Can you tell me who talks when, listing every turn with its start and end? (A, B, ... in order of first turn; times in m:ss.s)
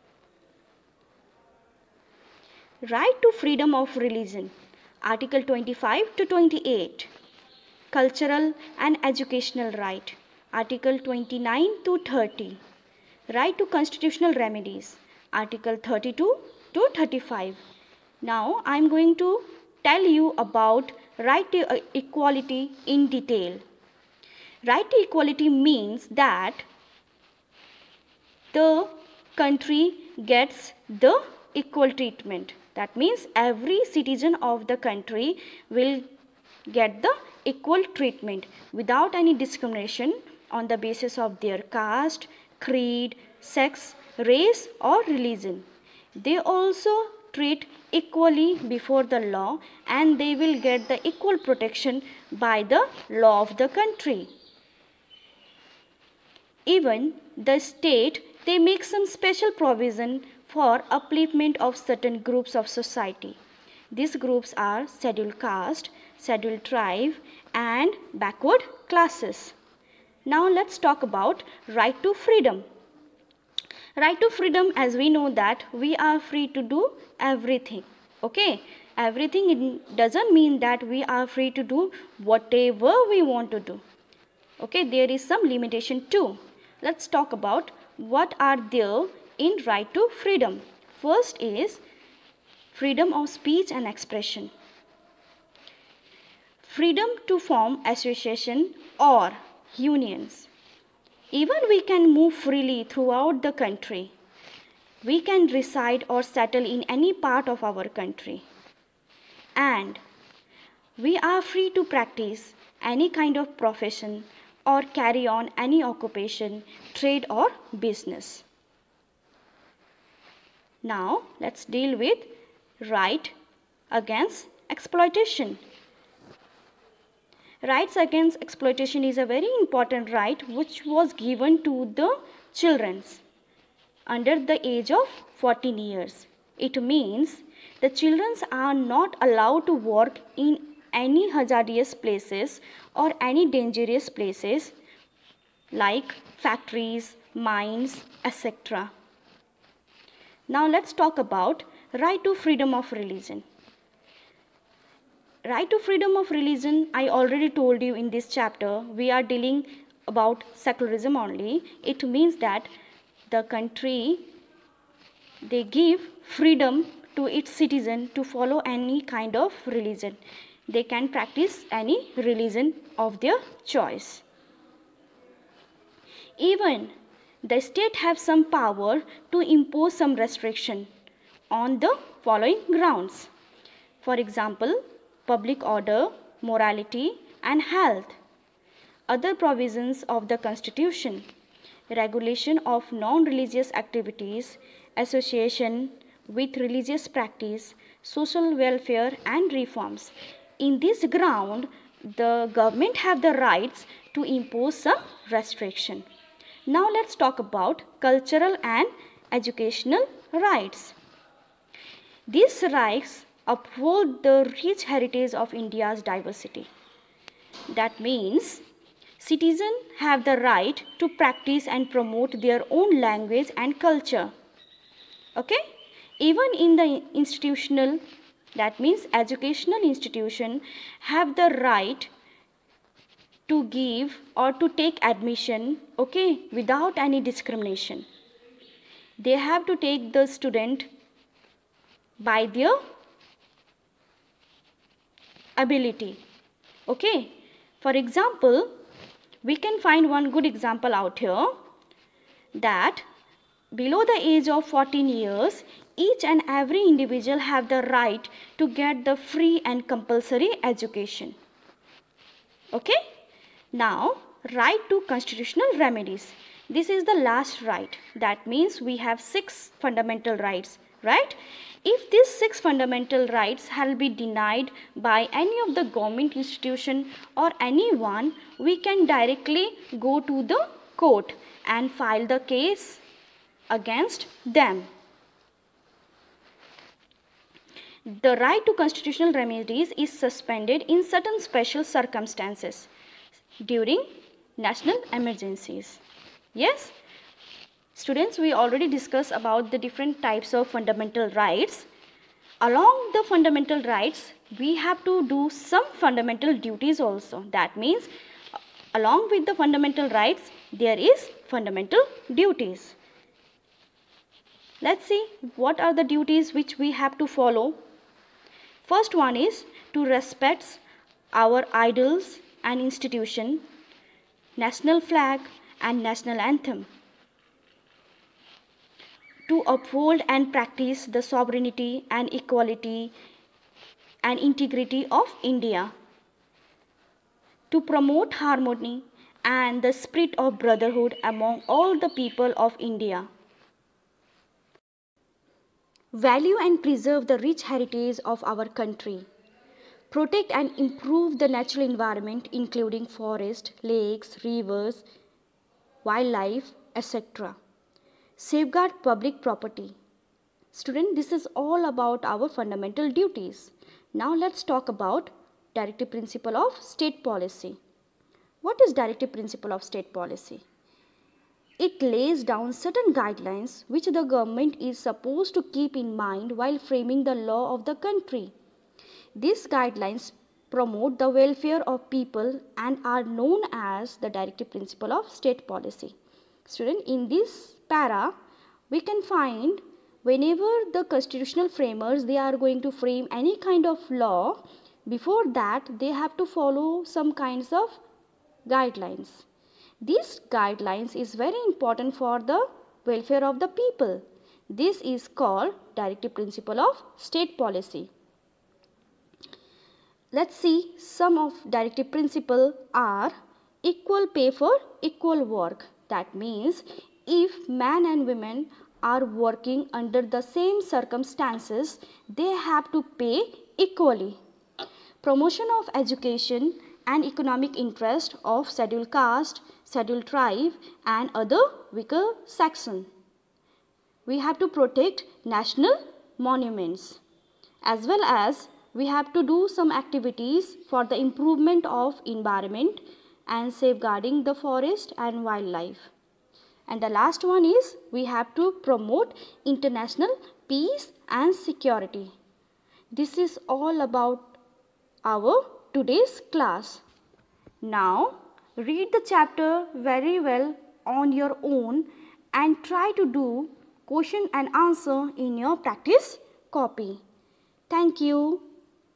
0:02.8-0:07.1 A
0:07.9-0:12.6 A
0:13.3-0:17.6 A
0:18.2-0:23.6 A
0:24.6-0:26.7 A
0:28.5-0:36.1 A
0:36.7-0:54.3 A
0:56.7-1:03.4 A
1:03.9-1:09.6 A
1:10.3-1:12.6 A
1:14.0-1:23.8 A
1:24.6-1:31.8 A
1:32.7-1:34.5 A
1:36.6-1:40.5 A
1:41.3-1:44.1 A
1:45.0-1:48.5 A
1:49.6-1:50.0 A
1:51.0-1:58.4 A
2:00.8-2:03.3 A
2:03.9-2:05.6 A
2:07.6-2:13.2 A
2:14.1-2:24.8 A
2:25.7-2:28.9 A
2:30.5-2:33.4 A
2:35.4-2:42.7 A
2:43.3-2:44.3 A
2:45.4-2:54.2 A
2:56.4-3:00.9 A
3:01.5-3:03.3 A
3:04.0-3:08.2 A
3:09.1-3:11.3 A
3:11.9-3:26.1 A
3:26.7-3:31.0 A
3:32.3-3:36.7 A
3:37.7-3:38.6 A
3:39.2-3:44.3 A
3:45.4-3:45.6 A
3:46.2-3:48.0 A
3:48.6-3:52.1 A
3:53.5-3:58.1 A
3:59.2-4:00.9 A
4:02.2-4:02.8 A
4:05.6-4:06.2 A
4:06.9-4:08.7 A
4:09.4-4:11.6 A
4:12.6-4:13.0 A
4:13.7-4:21.4 A
4:22.7-4:23.0 A
4:23.7-4:43.0 A
4:43.7-4:44.9 A
4:48.1-4:52.9 A
4:53.6-4:56.0 A
4:56.6-4:57.0 A
4:57.9-5:01.9 A
5:02.6-5:08.1 A
5:08.9-5:13.0 A
5:14.8-5:17.8 A
5:18.8-5:23.6 A
5:24.6-5:26.9 A
5:29.5-5:33.1 A
5:34.2-5:35.9 A
5:37.7-5:43.3 A
5:46.1-5:49.3 A
5:50.1-5:55.0 A
5:56.0-5:57.6 A
5:58.4-6:00.0 A
6:00.7-6:07.8 A
6:08.6-6:10.6 A
6:11.8-6:18.5 A
6:19.4-6:28.3 A
6:28.9-6:38.0 A
6:38.7-6:39.4 A
6:40.0-6:48.1 A
6:50.3-7:04.4 A
7:05.2-7:13.1 A
7:14.3-7:17.2 A
7:17.8-7:26.1 A
7:26.9-7:32.3 A
7:33.1-7:34.6 A
7:35.2-7:37.0 A
7:37.8-7:47.2 A
7:47.9-7:48.6 A